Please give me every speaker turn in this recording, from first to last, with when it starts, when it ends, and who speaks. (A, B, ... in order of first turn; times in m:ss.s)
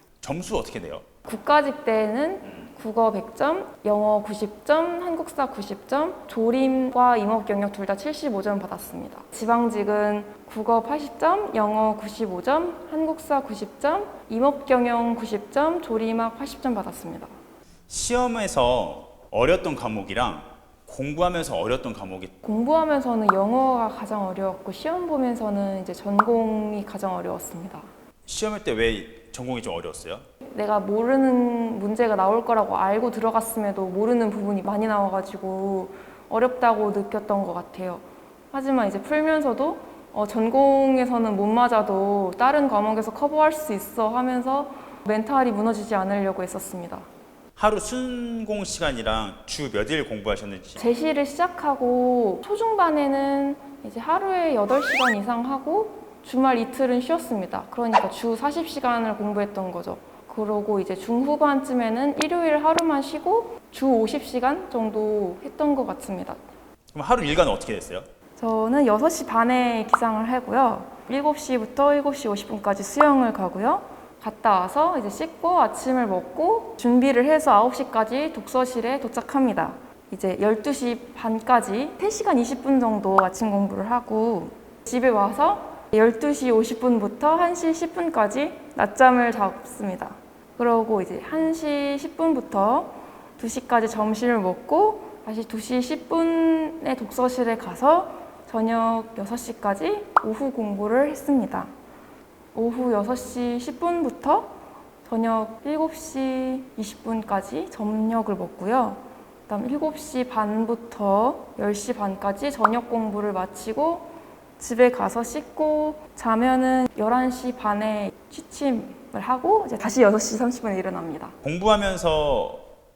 0:00.2-0:01.0 A
0:01.3-0:17.3 B
0:17.9-0:22.3 A
0:22.4-0:27.9 B
0:28.3-0:30.2 A
0:30.5-0:47.1 B
0:47.6-0:50.8 A
0:50.8-1:06.4 B
1:06.9-1:08.1 A
1:08.4-1:41.7 B
1:42.6-1:44.5 B
1:45.0-2:01.3 B
2:01.4-2:02.7 A